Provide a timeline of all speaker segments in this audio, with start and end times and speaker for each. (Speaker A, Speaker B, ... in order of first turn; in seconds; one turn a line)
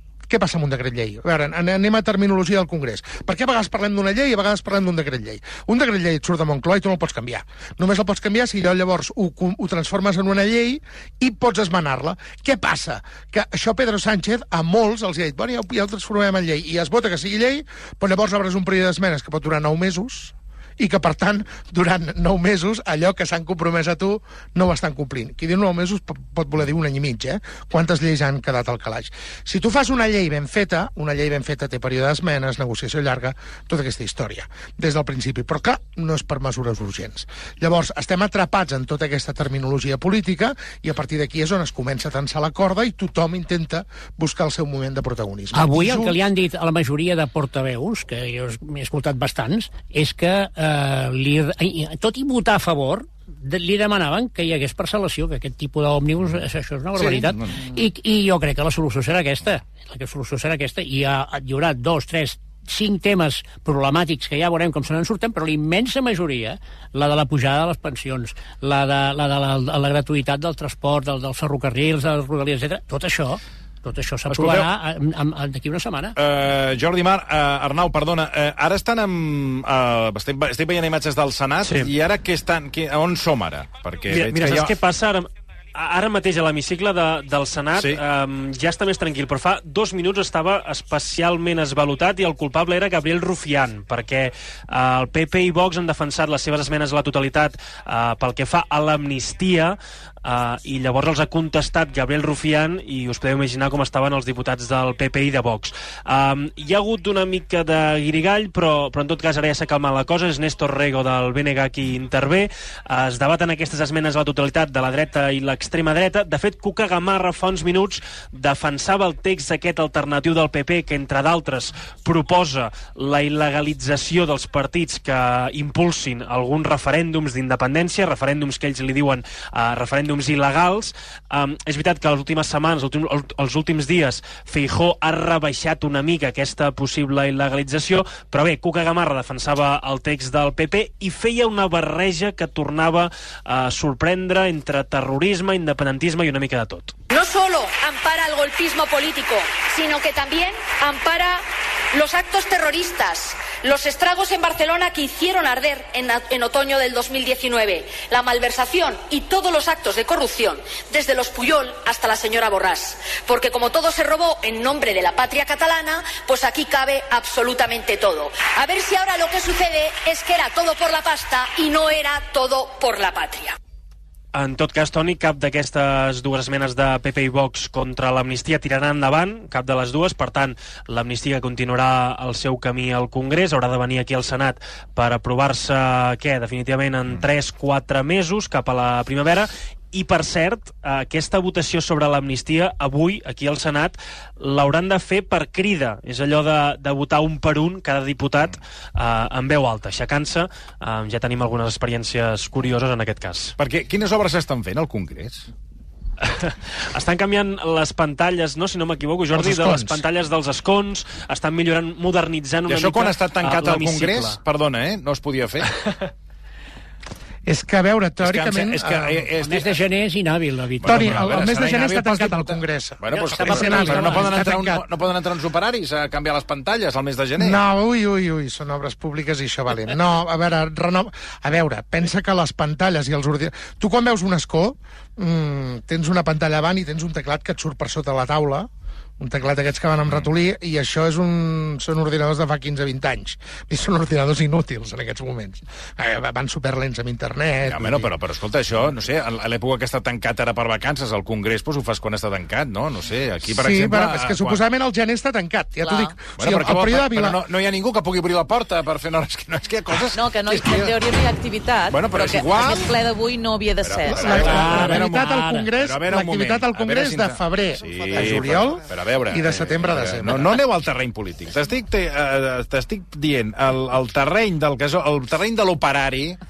Speaker A: 0.3-46.2
Speaker B: 45.5-76.2
Speaker C: 57.0-57.6
Speaker C: 74.3-74.7
Speaker C: 76.2-84.8
Speaker D: 81.6-81.9
Speaker D: 84.1-146.9
Speaker E: 147.1-173.6
Speaker D: 174.3-203.5
Speaker C: 203.6-205.4
Speaker D: 206.2-214.4
Speaker A: 209.3-210.0
Speaker C: 212.7-215.7
Speaker A: 217.4-219.3
Speaker C: 218.2-219.8
Speaker B: 219.4-221.3
Speaker C: 220.8-227.6
Speaker A: 220.8-224.8
Speaker B: 223.1-224.4
Speaker A: 227.4-248.1
Speaker C: 247.7-254.6
Speaker A: 253.5-257.4
Speaker F: 255.8-256.1
Speaker C: 256.4-261.0
Speaker F: 260.1-264.4
Speaker C: 261.9-263.0
Speaker C: 263.8-265.2
Speaker A: 264.1-270.6
Speaker B: 264.2-265.7
Speaker C: 265.8-276.4